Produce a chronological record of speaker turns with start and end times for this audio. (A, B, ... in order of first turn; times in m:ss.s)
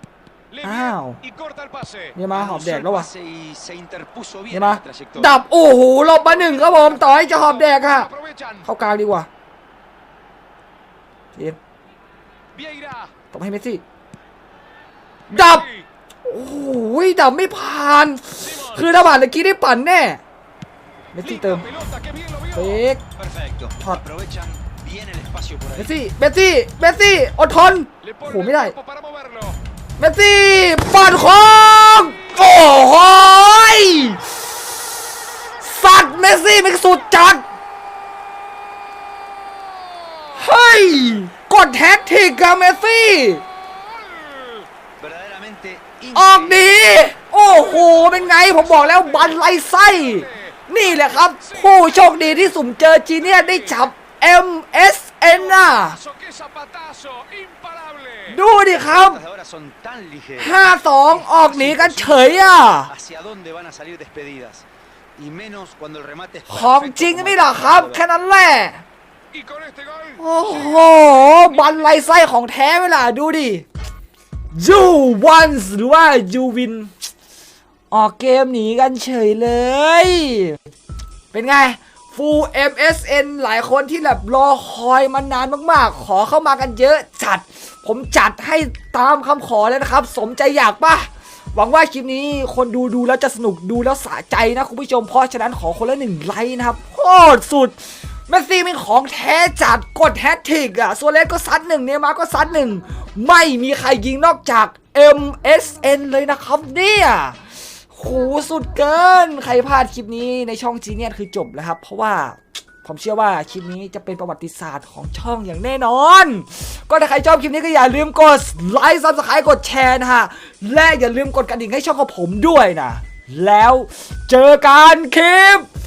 0:00.5-0:02.1 A
0:00.6-0:01.2 B
0:02.2-0:03.1 B
0:02.3-0:05.3 C
0:04.5-0:08.1 B
0:06.6-0:08.6 A
0:08.6-0:09.3 B
0:12.6-0:13.1 A
0:13.3-0:13.8 B
0:15.3-0:15.7 B
0:15.3-0:15.8 A
0:16.2-0:20.2 B
0:18.4-0:18.8 A
0:21.2-0:21.7 B
0:21.2-0:22.8 A
0:22.5-0:23.0 B
0:23.2-0:25.9 C
0:25.8-0:28.8 B
0:28.0-0:29.6 A
0:30.0-0:34.2 B
0:35.6-0:37.4 B
0:40.4-0:43.4 B
0:45.0-0:46.6 C
0:46.1-0:56.0 B
0:47.6-0:49.3 A
0:50.0-0:50.5 A
0:51.3-0:51.6 A
0:53.4-0:53.7 A
0:56.0-0:58.4 A
0:58.3-0:59.2 B
0:59.0-1:00.5 C
1:00.4-1:02.9 B
1:01.3-1:04.6 C
1:05.2-1:08.0 C
1:06.5-1:08.8 B
1:09.3-1:10.2 A
1:10.2-1:13.7 B
1:14.5-1:16.9 B
1:17.9-1:20.6 B
1:21.3-1:37.8 B
1:38.3-1:47.4 B
1:47.9-2:05.7 B